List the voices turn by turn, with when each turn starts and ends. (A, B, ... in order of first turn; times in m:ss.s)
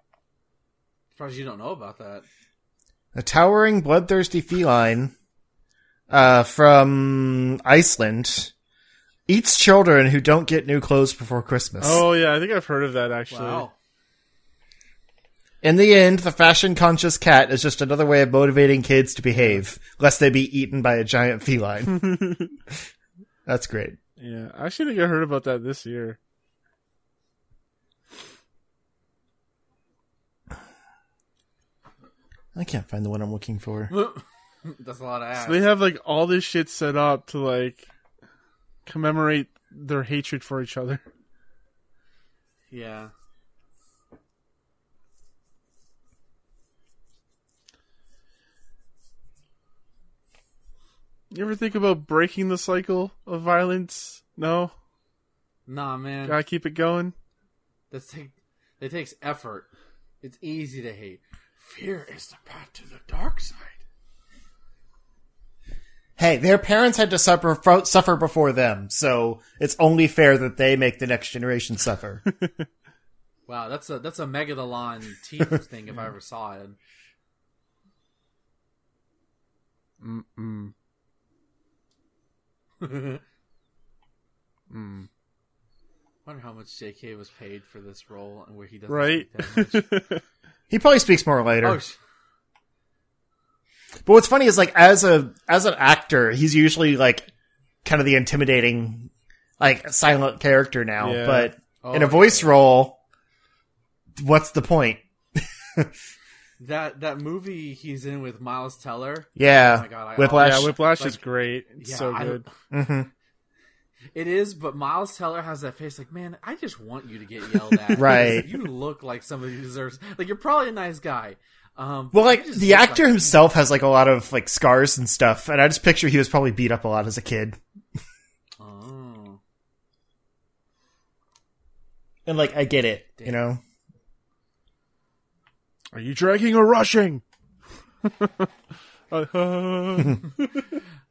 0:01.2-0:02.2 A
0:03.1-0:05.1 B
0:06.1-0:08.5 B
0:09.3-0:12.0 B
0:11.8-0:13.7 C
0:13.3-0:13.7 A
0:15.6-0:22.4 B
0:19.4-0:19.6 C
0:23.4-0:24.0 B
0:24.2-0:26.2 C
0:32.5-0:33.9 B
0:33.9-0:35.7 A
0:35.4-0:37.9 C
0:38.8-0:41.0 C
0:42.7-0:43.1 A
0:51.3-0:54.7 C
0:55.7-0:56.4 A
0:56.3-0:57.1 C
0:57.9-0:59.7 A
1:00.2-1:03.8 A
1:06.2-1:12.2 B
1:13.5-1:16.8 A
1:20.0-1:20.7 C
1:22.8-1:23.2 A
1:24.7-1:25.1 C
1:26.2-1:29.9 A
1:28.9-1:30.2 C
1:30.7-1:31.8 B
1:31.6-1:32.0 A
1:34.0-1:37.3 B
1:37.8-1:43.0 B
1:41.0-1:41.5 C
1:41.8-1:42.6 A
1:44.2-1:45.9 B
1:46.6-1:51.2 A
1:49.4-1:50.8 B
1:50.3-1:52.4 C
1:51.8-1:52.5 A
1:52.7-1:53.1 B
1:54.1-2:03.4 A
1:57.9-1:58.5 B
2:02.1-2:07.6 B
2:08.6-2:09.4 A
2:12.2-2:13.6 B
2:13.2-2:13.4 A
2:15.9-2:17.2 C
2:18.0-2:18.5 C
2:19.1-2:20.6 C